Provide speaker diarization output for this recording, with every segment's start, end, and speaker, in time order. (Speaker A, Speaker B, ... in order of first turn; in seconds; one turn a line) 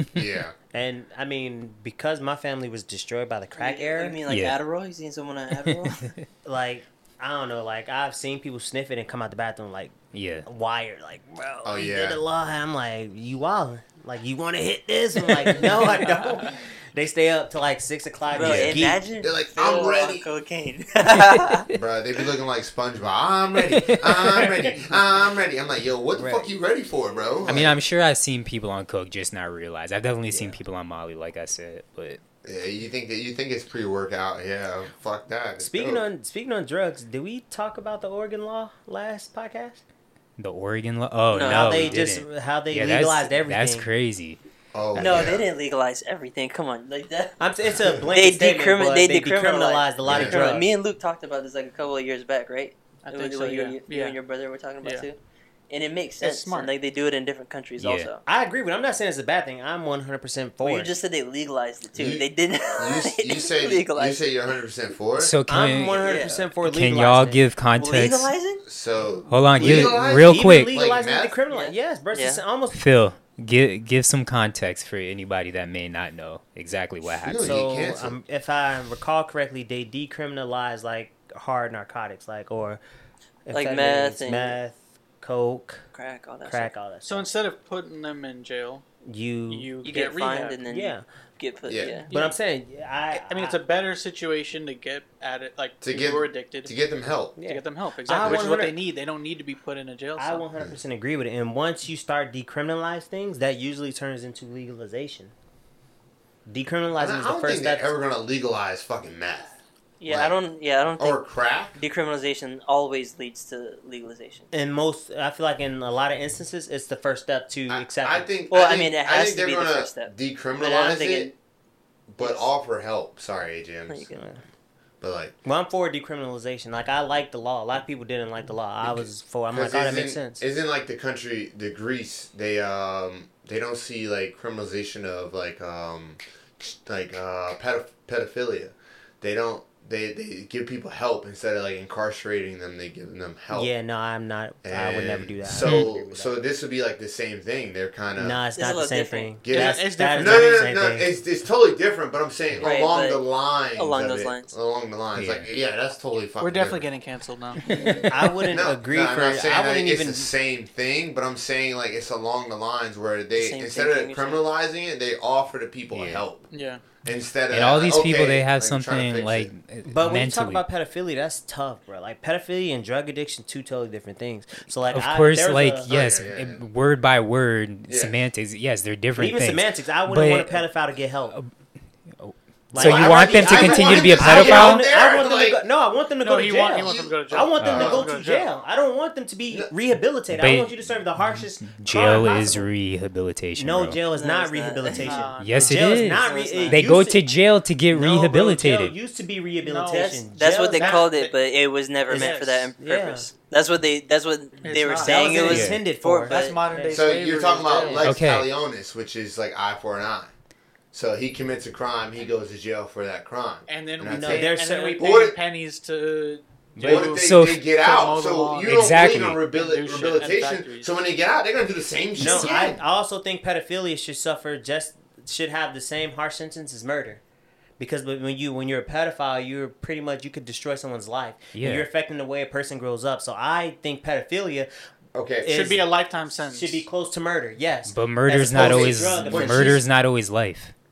Speaker A: 0.1-0.6
Speaker B: 0.7-4.2
Speaker C: 3.6-6.1
Speaker D: 4.3-4.6
Speaker D: 5.7-6.2
Speaker B: 6.4-9.9
Speaker D: 10.1-10.5
Speaker B: 10.4-19.0
Speaker A: 11.7-12.2
Speaker D: 15.3-15.8
Speaker C: 18.3-21.7
Speaker D: 18.4-18.8
Speaker A: 19.2-20.3
Speaker E: 19.6-19.9
Speaker A: 21.7-27.8
Speaker D: 23.7-24.8
Speaker B: 26.1-26.5
Speaker D: 27.5-32.2
Speaker B: 30.3-30.6
Speaker A: 32.4-36.1
Speaker B: 35.6-39.8
Speaker D: 40.4-44.4
Speaker C: 41.3-42.0
Speaker B: 41.4-43.9
Speaker A: 44.7-45.5
Speaker C: 45.0-47.4
Speaker B: 47.4-50.7
Speaker C: 48.0-55.2
Speaker A: 50.0-50.4
Speaker E: 53.0-54.2
Speaker C: 55.7-58.2
Speaker E: 56.2-56.7
Speaker D: 57.8-58.1
Speaker B: 58.3-60.9
Speaker C: 60.6-64.2
Speaker A: 62.0-65.3
Speaker D: 65.2-68.3
Speaker B: 65.5-67.4
Speaker C: 66.0-66.5
Speaker C: 67.8-68.6
Speaker A: 68.7-71.3
Speaker D: 69.3-70.8
Speaker B: 69.6-72.8
Speaker C: 71.5-72.4
Speaker D: 72.7-77.7
Speaker A: 77.2-78.2
Speaker B: 77.4-82.8
Speaker B: 83.5-85.8
Speaker C: 83.5-84.6
Speaker C: 85.9-86.7
Speaker B: 86.5-87.3
Speaker E: 87.0-88.8
Speaker B: 89.1-89.7
Speaker E: 89.5-90.6
Speaker C: 89.8-92.1
Speaker B: 90.7-91.0
Speaker A: 91.7-92.1
Speaker B: 92.1-93.6
Speaker E: 93.1-96.7
Speaker A: 95.8-97.4
Speaker B: 97.4-98.8
Speaker E: 97.4-100.5
Speaker A: 98.1-98.6
Speaker B: 100.2-105.3
Speaker B: 106.5-107.9
Speaker A: 107.0-109.5
Speaker C: 110.0-111.2
Speaker A: 110.1-110.4
Speaker A: 111.0-111.8
Speaker C: 111.8-114.5
Speaker B: 114.5-118.3
Speaker A: 117.7-121.3
Speaker C: 118.5-121.3
Speaker A: 122.1-124.1
Speaker C: 122.2-122.5
Speaker C: 123.9-124.3
Speaker B: 124.1-124.4
Speaker A: 125.0-125.4
Speaker B: 125.4-130.4
Speaker A: 128.8-143.7
Speaker B: 143.5-146.4
Speaker A: 144.6-148.4
Speaker D: 145.5-145.9
Speaker B: 148.2-151.1
Speaker C: 148.6-149.3
Speaker A: 149.4-156.9
Speaker E: 149.5-150.6
Speaker C: 152.6-154.5
Speaker D: 155.1-155.5
Speaker E: 156.4-158.1
Speaker A: 157.7-166.5
Speaker D: 157.8-158.1
Speaker B: 158.0-160.3
Speaker C: 163.3-164.4
Speaker D: 165.9-166.2
Speaker E: 166.5-166.8
Speaker A: 167.0-169.5
Speaker D: 167.5-170.7
Speaker B: 169.8-175.9
Speaker D: 174.9-180.6
Speaker A: 175.9-176.6
Speaker B: 179.2-181.4
Speaker D: 182.1-184.9
Speaker B: 182.7-192.7
Speaker A: 182.8-185.6
Speaker E: 186.2-188.5
Speaker A: 186.8-188.1
Speaker D: 187.6-188.0
Speaker D: 190.3-194.0
Speaker B: 193.6-197.2
Speaker C: 194.1-195.2
Speaker E: 194.9-196.9
Speaker D: 195.4-198.9
Speaker B: 197.9-201.1
Speaker E: 199.6-200.2
Speaker C: 200.3-206.6
Speaker E: 200.8-201.3
Speaker B: 202.1-203.3
Speaker E: 204.6-205.6
Speaker B: 204.9-207.2
Speaker D: 205.5-205.8
Speaker E: 206.2-208.1
Speaker A: 206.9-210.3
Speaker D: 208.0-208.5
Speaker A: 210.9-215.4
Speaker E: 213.7-221.0
Speaker B: 214.1-215.0
Speaker D: 216.8-217.7
Speaker A: 216.8-222.8
Speaker D: 218.7-219.4
Speaker B: 222.2-227.2
Speaker B: 227.8-234.7
Speaker D: 231.6-231.9
Speaker A: 235.2-235.7
Speaker B: 235.4-235.8
Speaker E: 235.5-236.8
Speaker B: 236.4-239.8
Speaker D: 237.9-240.7
Speaker A: 238.5-239.8